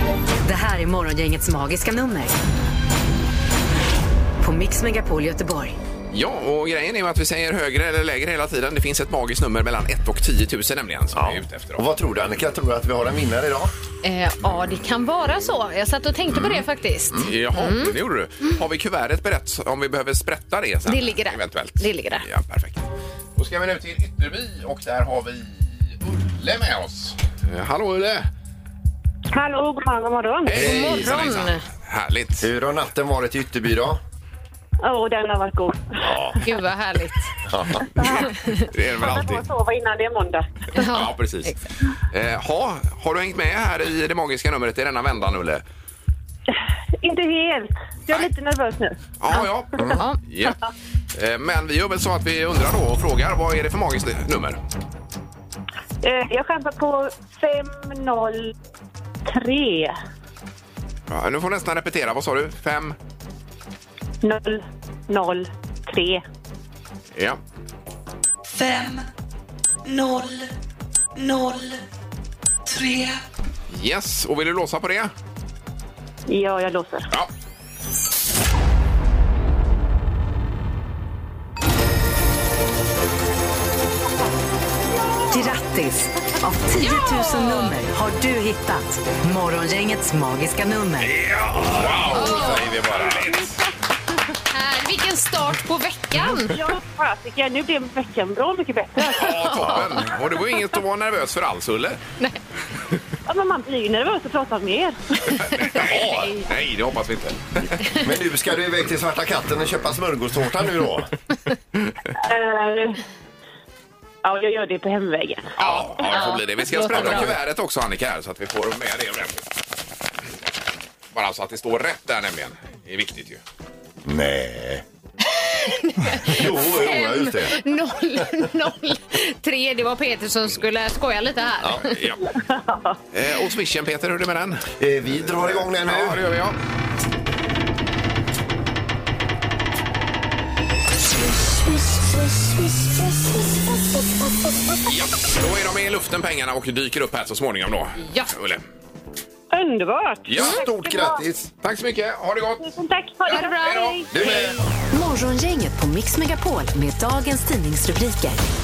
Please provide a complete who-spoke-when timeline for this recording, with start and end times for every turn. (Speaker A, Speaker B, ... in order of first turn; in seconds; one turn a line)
Speaker A: 0.4-2.3
Speaker A: 4.4-5.8
Speaker B: 6.1-11.8
Speaker C: 11.1-13.7
Speaker D: 14.0-17.9
Speaker C: 16.3-17.3
Speaker B: 17.2-28.3
Speaker D: 20.9-22.2
Speaker E: 29.3-30.8
Speaker B: 30.4-32.5
Speaker C: 30.5-31.2
Speaker D: 30.5-31.6
Speaker C: 32.4-34.0
Speaker E: 34.8-36.3
Speaker C: 36.0-36.4
Speaker D: 36.4-37.3
Speaker C: 37.5-37.9
Speaker E: 37.9-38.3
Speaker B: 38.0-39.4
Speaker E: 38.9-40.5
Speaker D: 40.7-41.6
Speaker B: 40.8-41.5
Speaker B: 42.1-45.6
Speaker E: 47.0-49.0
Speaker B: 49.2-50.6
Speaker D: 49.3-50.2
Speaker B: 51.1-54.6
Speaker E: 56.0-58.5
Speaker E: 59.3-60.0
Speaker B: 61.1-63.0
Speaker E: 64.2-66.2
Speaker B: 67.1-67.4
Speaker F: 68.5-69.0
Speaker F: 69.9-70.4
Speaker F: 71.2-71.8
Speaker F: 72.7-73.2
Speaker B: 73.7-75.1
Speaker E: 76.3-77.1
Speaker A: 85.3-91.1
Speaker D: 86.8-87.7
Speaker B: 91.1-93.5
Speaker C: 91.5-93.5
Speaker D: 92.1-92.7
Speaker D: 94.5-96.5
Speaker E: 96.5-99.6
Speaker B: 99.1-102.0
Speaker C: 99.6-100.1
Speaker E: 103.3-105.4
Speaker B: 105.3-107.8
Speaker D: 105.7-106.2
Speaker C: 107.9-111.1
Speaker E: 112.2-113.0
Speaker E: 114.2-115.5
Speaker B: 115.6-119.4
Speaker D: 115.6-117.3
Speaker C: 116.9-117.4
Speaker B: 121.1-123.4
Speaker C: 124.0-124.8
Speaker D: 125.4-131.9
Speaker C: 126.2-127.6
Speaker B: 131.9-132.2
Speaker E: 132.5-133.0
Speaker B: 133.1-134.7
Speaker C: 134.8-136.2
Speaker B: 135.4-136.6
Speaker B: 144.9-148.6
Speaker D: 148.0-148.3
Speaker E: 149.5-151.2
Speaker B: 150.3-150.6
Speaker C: 150.3-151.5
Speaker B: 151.6-152.7
Speaker E: 152.6-154.1
Speaker D: 153.3-154.4
Speaker B: 153.5-154.0
Speaker C: 154.1-154.7
Speaker A: 154.9-158.4